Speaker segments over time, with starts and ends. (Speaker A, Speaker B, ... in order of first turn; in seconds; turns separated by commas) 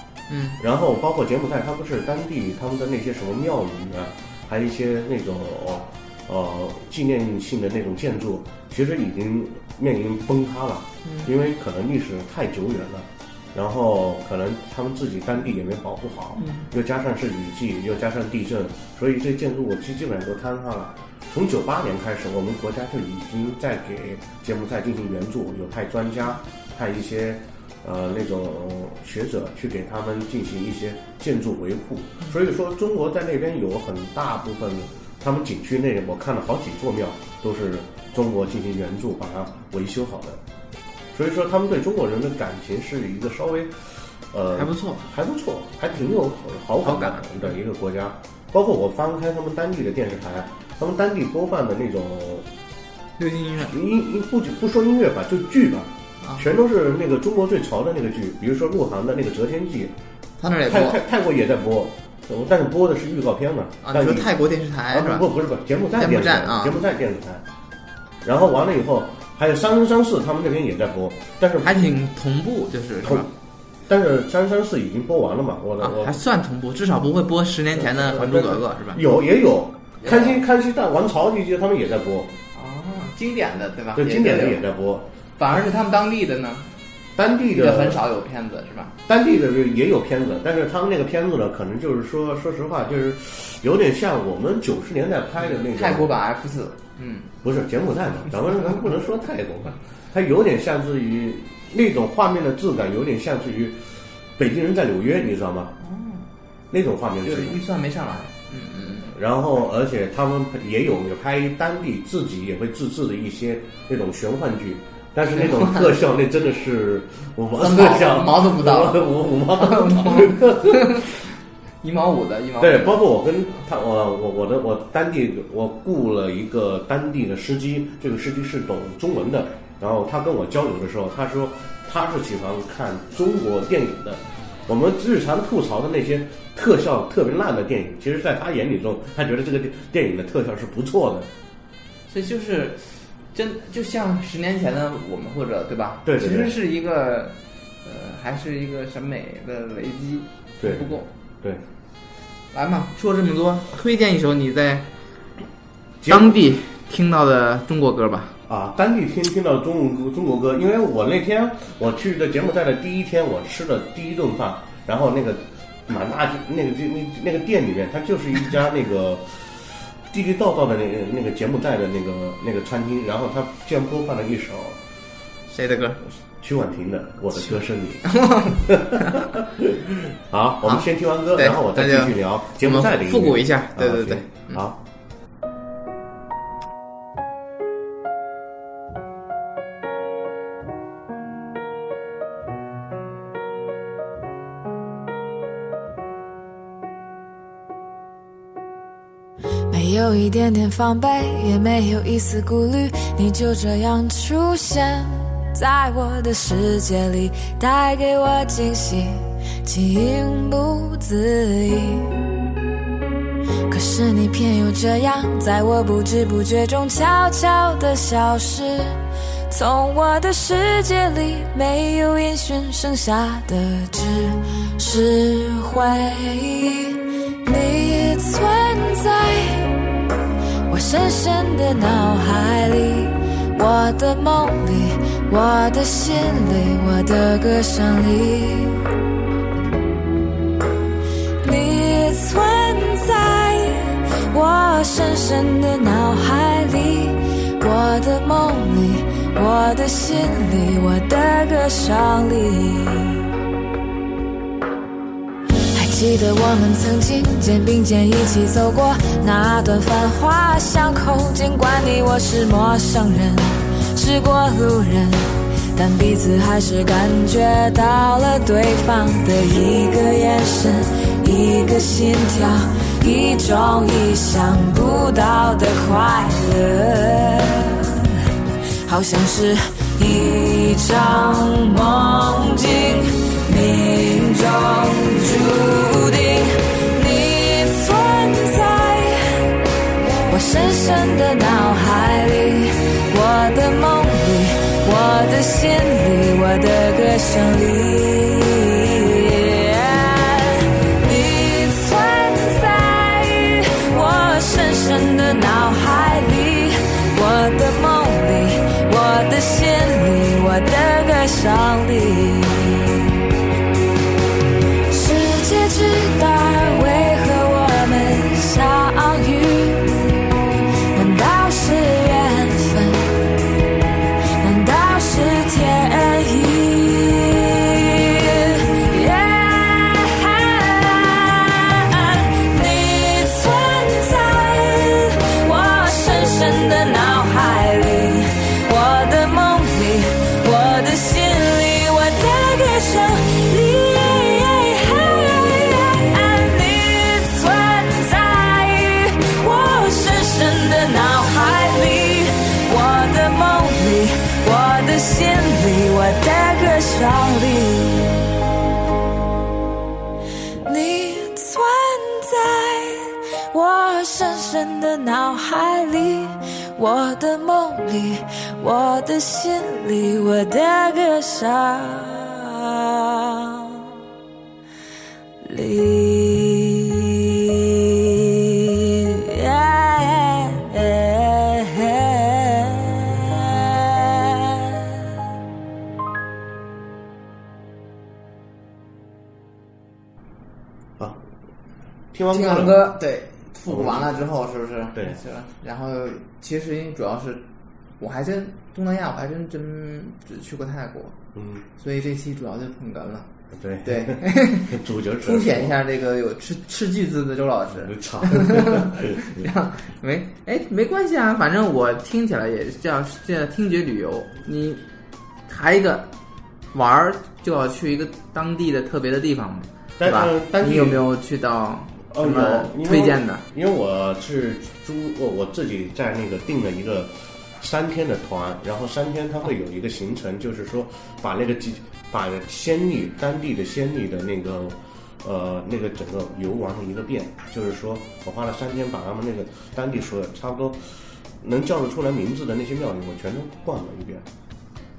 Speaker A: 0.3-0.6, Speaker B: 0.6-40.4, Speaker A: 11.0-11.3, Speaker A: 16.4-16.7, Speaker B: 41.1-52.5, Speaker A: 44.5-45.1, Speaker A: 46.8-47.6, Speaker A: 53.2-53.8, Speaker B: 53.6-59.9, Speaker A: 60.4-61.0, Speaker B: 60.6-64.3, Speaker A: 63.8-65.3, Speaker B: 64.9-67.4, Speaker A: 65.9-66.8, Speaker B: 68.2-71.8, Speaker A: 71.6-73.3, Speaker B: 73.9-76.2, Speaker A: 75.8-79.0, Speaker B: 77.7-82.3, Speaker A: 80.0-80.4, Speaker A: 82.5-84.6, Speaker B: 83.9-85.1, Speaker A: 85.4-86.7, Speaker B: 87.2-88.0, Speaker A: 87.5-89.0, Speaker B: 89.1-96.1, Speaker A: 95.4-97.3, Speaker B: 97.4-105.7, Speaker A: 105.8-106.2, Speaker B: 106.7-107.6, Speaker A: 107.2-109.1, Speaker B: 109.1-121.1, Speaker A: 115.3-116.0, Speaker A: 117.5-121.2, Speaker A: 121.8-123.0, Speaker B: 122.6-141.3, Speaker A: 142.1-151.1, Speaker B: 146.0-146.6, Speaker B: 150.6-151.6, Speaker A: 152.5-154.9, Speaker B: 156.0-156.3, Speaker A: 156.1-158.4, Speaker B: 158.4-174.8, Speaker A: 175.5-176.0, Speaker B: 176.4-184.8, Speaker A: 177.4-179.3, Speaker A: 180.6-184.6, Speaker C: 199.7-212.2, Speaker C: 213.7-229.8, Speaker C: 230.7-238.8, Speaker C: 241.4-253.3, Speaker C: 255.7-278.2, Speaker C: 278.9-289.4, Speaker C: 290.3-313.2, Speaker C: 314.9-320.1, Speaker C: 320.9-323.1, Speaker C: 324.4-358.4, Speaker C: 360.6-373.8, Speaker C: 375.4-384.7, Speaker B: 392.1-392.8, Speaker A: 392.3-397.4, Speaker B: 393.7-394.2, Speaker A: 398.0-401.1, Speaker B: 401.3-401.6, Speaker A: 401.8-403.3, Speaker B: 403.5-405.8, Speaker A: 403.8-414.8, Speaker B: 407.7-409.5, Speaker A: 415.5-416.1, Speaker A: 416.7-423.4, Speaker B: 420.0-421.0, Speaker B: 422.1-444.2